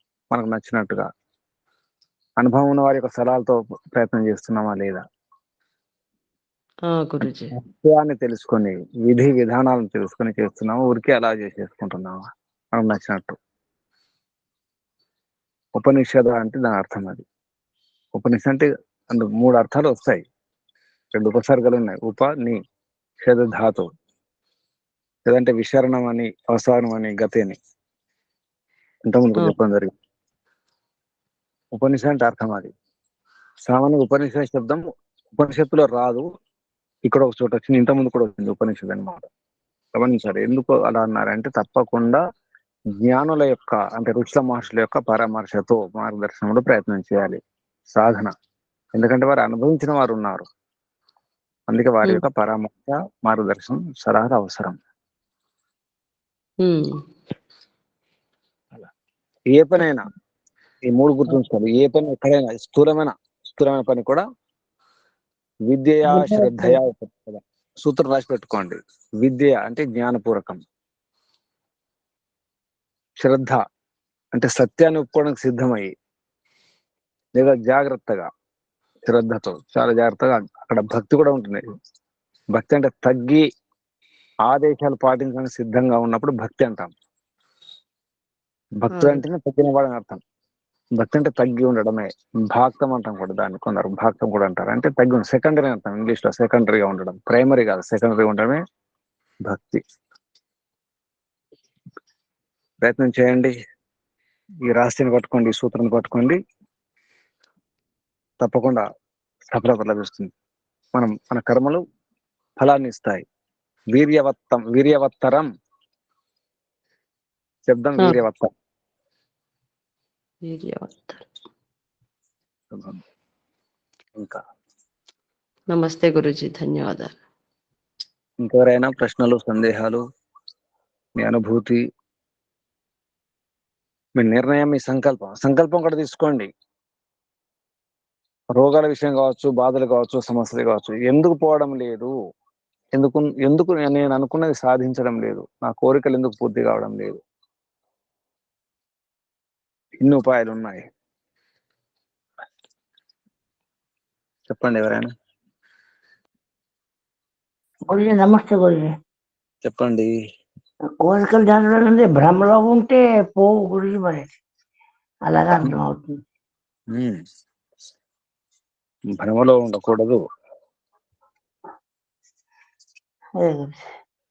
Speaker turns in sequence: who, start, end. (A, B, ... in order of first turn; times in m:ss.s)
0:00.3-0:01.1 A
0:02.4-0:05.0 A
0:06.9-0:07.5 B
0:07.6-0:12.2 A
0:12.8-0:13.4 A
0:15.8-0:17.2 A
0:18.2-0:20.2 A
0:21.1-0:22.6 A
0:23.2-0:23.9 A
0:25.3-0:27.6 A
0:29.1-0:29.9 A
0:31.7-0:32.7 A
0:33.7-0:36.3 A
0:37.1-0:39.3 A
0:40.0-0:42.2 A
0:43.0-0:47.4 A
0:47.9-0:48.3 A
0:49.0-0:50.4 A
0:51.7-0:54.8 A
0:56.6-0:56.9 B
0:59.5-1:00.1 A
1:00.9-1:04.2 A
1:05.7-1:10.6 A
1:13.2-1:13.6 A
1:14.3-1:15.9 A
1:17.3-1:18.3 A
1:19.0-1:21.6 A
1:22.6-1:23.4 A
1:24.5-1:26.9 A
1:28.8-1:30.2 A
1:28.9-1:29.2 B
1:31.0-1:38.6 A
1:39.5-1:39.8 A
1:42.8-1:43.5 A
1:44.7-1:46.4 A
1:48.4-1:48.8 A
1:49.5-1:50.3 A
1:51.0-1:51.8 A
1:52.6-1:53.2 A
1:53.9-1:55.5 A
1:57.7-1:58.5 A
2:00.5-2:01.3 B
2:02.7-2:03.0 A
2:05.7-2:07.1 B
2:08.4-2:10.0 A
2:11.2-2:11.8 A
2:14.2-2:16.5 A
2:18.6-2:22.1 A
2:23.0-2:27.2 A
2:30.0-2:30.8 A
2:34.5-2:35.1 A
2:37.9-2:38.9 C
2:39.6-2:40.1 A
2:41.0-2:44.3 C
2:45.3-2:46.2 C
2:46.9-2:47.2 A
2:49.2-2:50.2 A
2:53.4-2:53.9 C